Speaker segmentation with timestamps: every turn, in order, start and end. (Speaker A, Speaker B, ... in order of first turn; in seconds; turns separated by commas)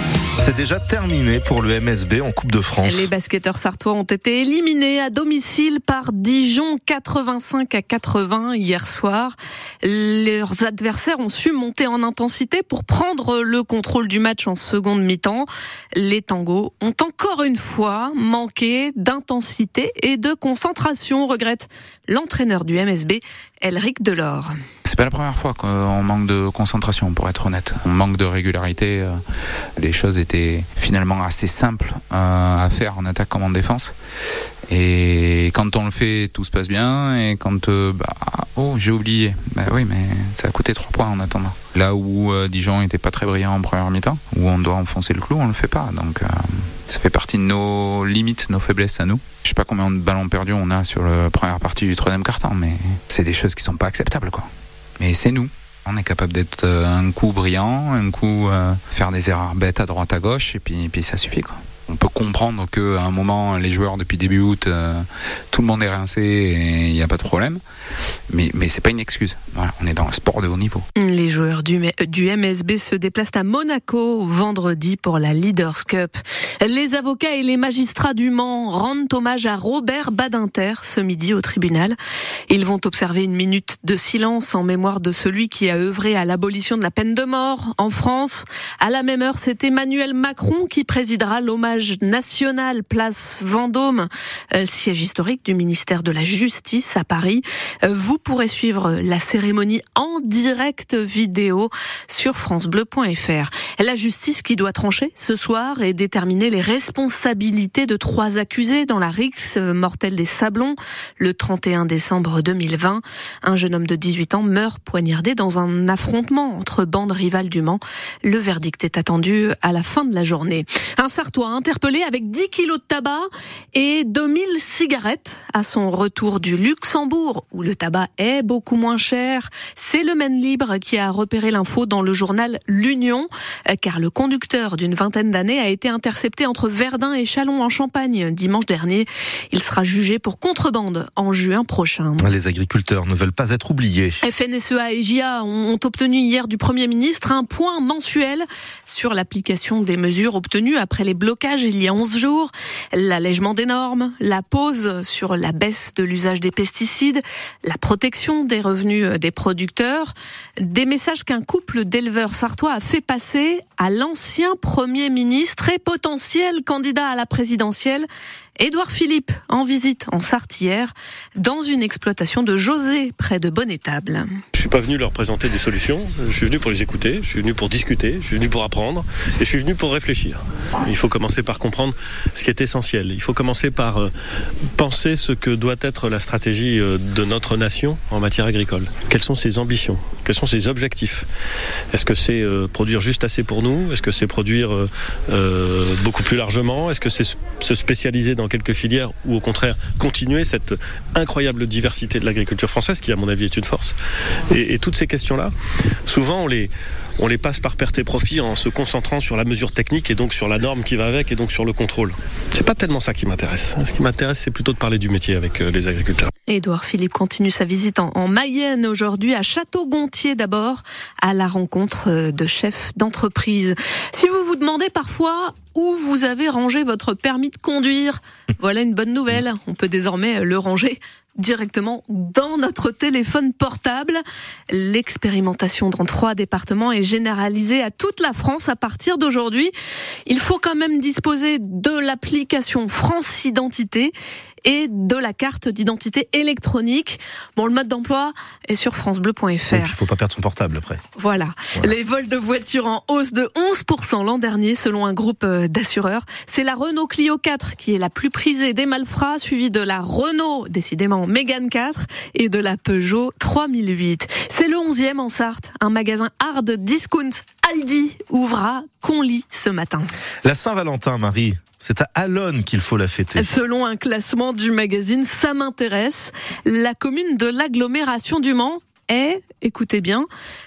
Speaker A: 0.4-3.1, Speaker B: 2.8-24.5, Speaker C: 24.9-29.2, Speaker C: 29.8-33.9, Speaker C: 34.7-54.5, Speaker C: 55.0-67.6, Speaker C: 68.3-70.8, Speaker B: 71.0-82.0, Speaker B: 82.5-142.3, Speaker A: 142.2-144.2, Speaker B: 144.2-168.1, Speaker B: 168.6-174.3, Speaker D: 174.6-184.1, Speaker D: 184.8-191.2, Speaker D: 191.9-203.9, Speaker D: 204.5-205.5, Speaker D: 206.1-216.3, Speaker B: 216.5-239.7, Speaker B: 240.3-244.1, Speaker B: 244.6-250.0, Speaker A: 249.7-251.0, Speaker B: 251.2-270.1, Speaker A: 270.4-273.5, Speaker B: 273.4-280.3